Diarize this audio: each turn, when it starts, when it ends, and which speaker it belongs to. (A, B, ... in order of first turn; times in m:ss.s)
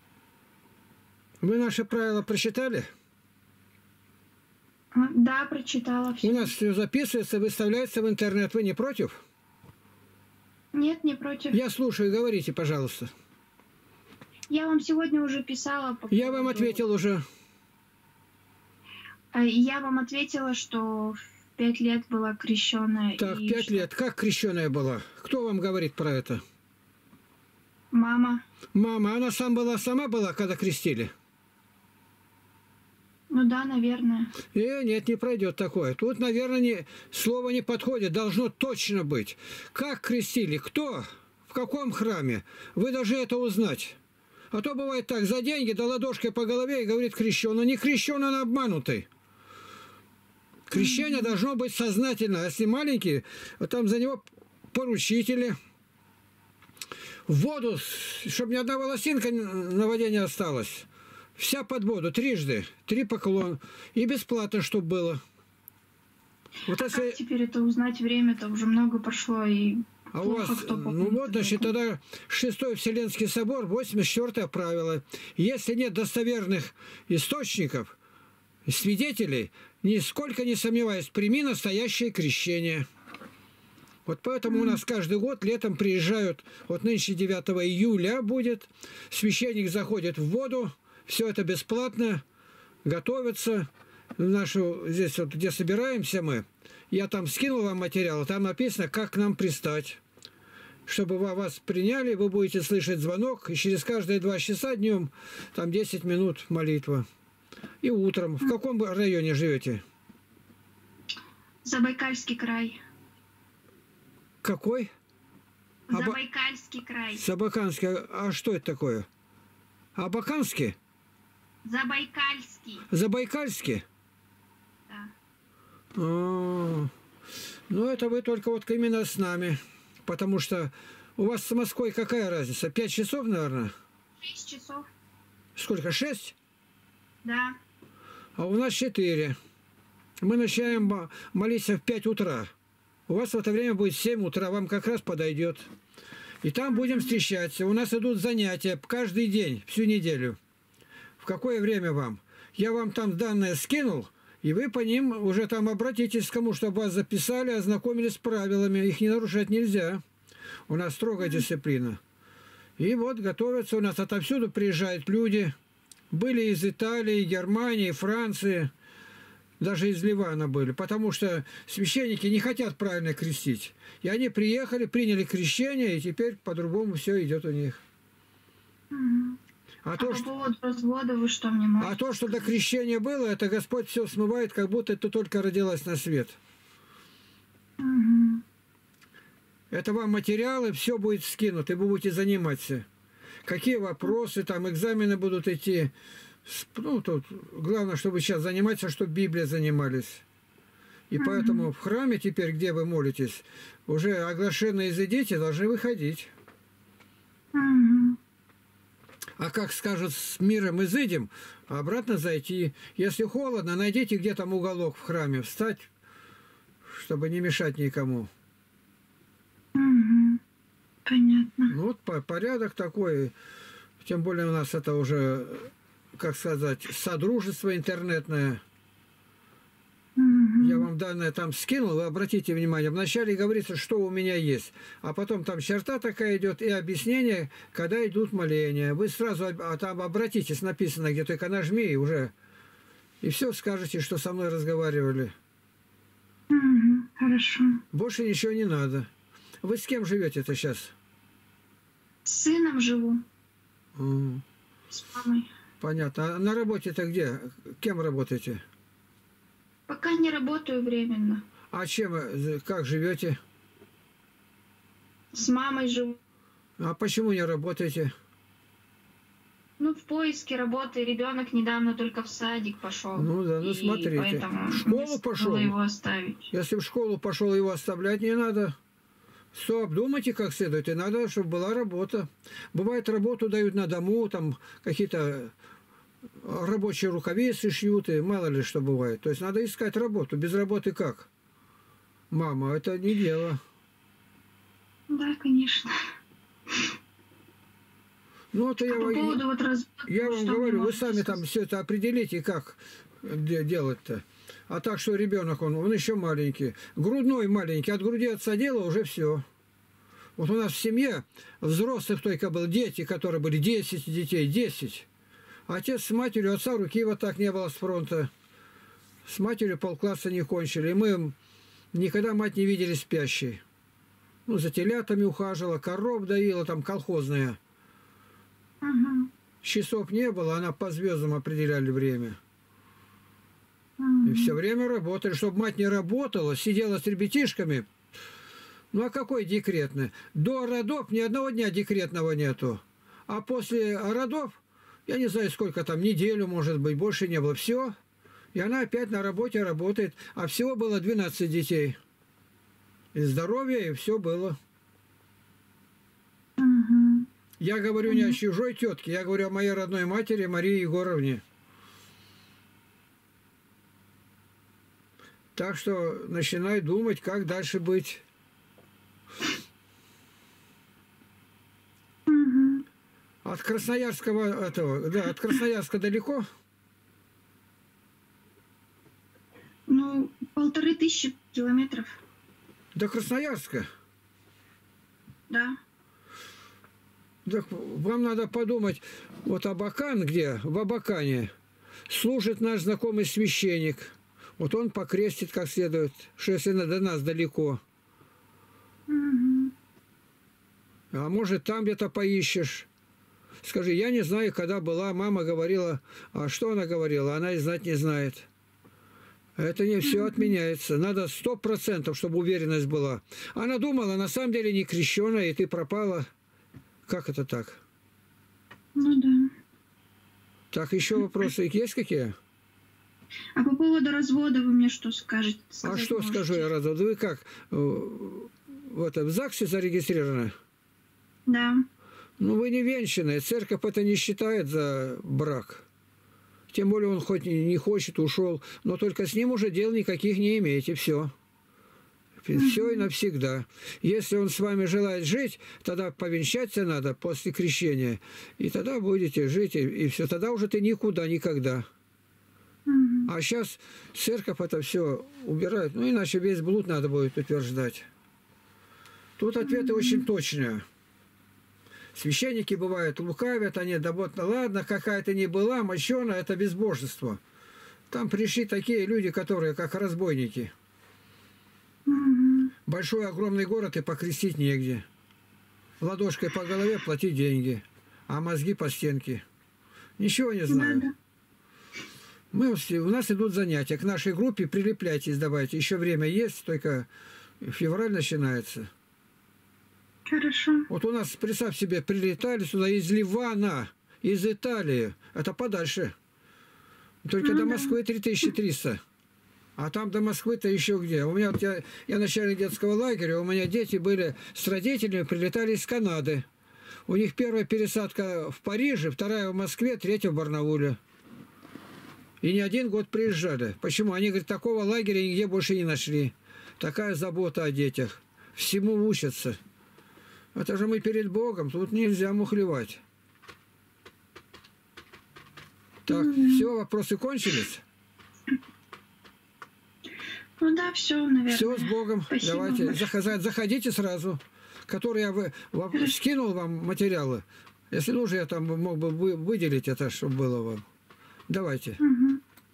0:01.4-0:02.9 A
0:04.9-0:06.5 B
0:06.2-0:09.2 A
0:10.7-0:11.6 B
0:11.5-0:13.1 A
0:14.5-0:16.8 B
0:16.1-0:17.2 A
0:19.3-0:23.9 B
0:23.2-0:26.4 A
0:27.9-0:28.4 B
0:28.7-0:31.1 A
0:33.3-0:34.3 B
0:34.5-0:44.0 A
0:44.5-0:49.1 A
0:50.7-0:55.6 A
0:50.7-0:51.4 B
0:57.3-1:00.9 A
1:01.4-1:05.2 A
1:06.7-1:07.2 A
1:06.8-1:11.7 B
1:10.1-1:17.9 A
1:18.6-1:22.8 A
1:24.0-1:32.2 A
1:24.4-1:24.8 B
1:32.8-1:40.0 A
1:40.8-1:47.0 A
1:47.8-1:49.8 A
1:51.6-1:52.8 B
1:54.4-1:54.9 A
1:55.9-1:57.2 B
1:55.9-1:56.2 A
1:57.2-1:59.1 A
2:00.0-2:00.8 A
2:01.6-2:02.8 B
2:02.9-2:03.8 A
2:06.0-2:06.9 A
2:07.7-2:13.7 A
2:14.2-2:14.9 B
2:15.6-2:16.3 A
2:17.2-2:17.6 B
2:18.4-2:19.4 A
2:20.2-2:22.5 A
2:20.6-2:20.9 B
2:23.1-2:25.7 A
2:26.4-2:30.4 A
2:26.7-2:27.1 B
2:31.2-2:40.0 A
2:40.7-2:42.0 A
2:41.2-2:41.4 B
2:42.8-2:45.5 A
2:46.1-2:48.7 A
2:49.6-2:57.8 A
2:58.9-2:59.4 B
2:59.8-3:00.2 A
3:00.0-3:02.5 B
3:01.8-3:06.4 A
3:07.8-3:08.4 B
3:09.7-3:12.8 A
3:13.4-3:15.9 A
3:16.4-3:20.2 A
3:21.1-3:26.3 A
3:21.2-3:21.7 B
3:27.5-3:28.2 B
3:29.4-3:35.9 A
3:36.9-3:38.3 A
3:39.7-3:40.4 B
3:41.0-3:41.7 B
3:41.7-3:43.3 A
3:44.0-3:48.6 A
3:50.2-3:50.9 B
3:50.6-4:02.3 A
4:03.2-4:05.3 A
4:06.5-4:07.8 B
4:07.9-4:09.1 A
4:09.6-4:10.9 A
4:12.2-4:13.2 B
4:14.0-4:14.4 A
4:14.9-4:15.5 B
4:15.8-4:18.6 A
4:19.9-4:21.4 B
4:21.7-4:23.4 A
4:25.3-4:26.2 B
4:26.8-4:28.1 A
4:29.8-4:36.5 B
4:33.1-4:35.7 A
4:36.5-4:38.7 A
4:39.5-4:45.5 A
4:46.4-4:51.3 A
4:52.3-4:53.6 A
4:55.1-4:55.9 B
4:58.5-4:59.4 A
4:58.8-5:01.4 B
5:00.1-5:09.4 A
5:10.4-5:15.1 A
5:15.7-5:18.3 A
5:19.2-5:21.3 A
5:21.9-5:23.6 A
5:24.5-5:27.6 A
5:28.8-5:29.3 B
5:29.6-5:32.4 A
5:34.0-5:34.6 B
5:34.2-5:37.8 A
5:38.9-5:47.9 A
5:48.5-5:52.0 A
5:53.1-5:54.6 A
5:56.6-5:57.2 B
5:57.6-6:01.4 A
5:58.1-5:58.4 B
6:05.6-6:08.2 A
6:12.3-6:12.8 B
6:13.4-6:16.4 A
6:19.9-6:22.2 B
6:22.9-6:23.8 A
6:25.5-6:25.8 B
6:27.4-6:31.5 A
6:32.1-6:37.8 A
6:39.1-6:39.7 B
6:41.1-6:42.9 A
6:43.6-6:48.5 A
6:49.6-6:56.3 A
6:50.0-6:50.5 B
6:57.1-6:57.8 A
6:59.0-6:59.5 B
7:00.7-7:02.3 A
7:03.6-7:06.7 B
7:05.8-7:10.5 A
7:11.5-7:11.8 B
7:12.4-7:15.8 A
7:16.7-7:21.3 A
7:22.4-7:31.8 A
7:22.5-7:23.1 B
7:32.9-7:33.3 B
7:33.3-7:38.0 A
7:39.4-7:40.8 A
7:39.6-7:40.2 B
7:42.1-7:47.4 A
7:48.1-7:50.7 A
7:52.1-7:52.7 B
7:52.9-7:55.0 A
7:56.0-7:59.4 A
8:00.2-8:01.0 A
8:00.7-8:01.1 B
8:02.5-8:07.1 A
8:07.6-8:08.9 A
8:10.3-8:10.9 B
8:10.9-8:16.1 A
8:17.2-8:19.0 A
8:17.4-8:17.9 B
8:19.8-8:26.4 A
8:27.1-8:31.0 A
8:32.4-8:39.6 A
8:40.5-8:43.0 A
8:46.1-8:46.7 B
8:46.1-8:47.8 A
8:50.6-8:53.1 B
8:51.5-9:00.8 A
9:01.5-9:02.0 A
9:02.0-9:02.4 B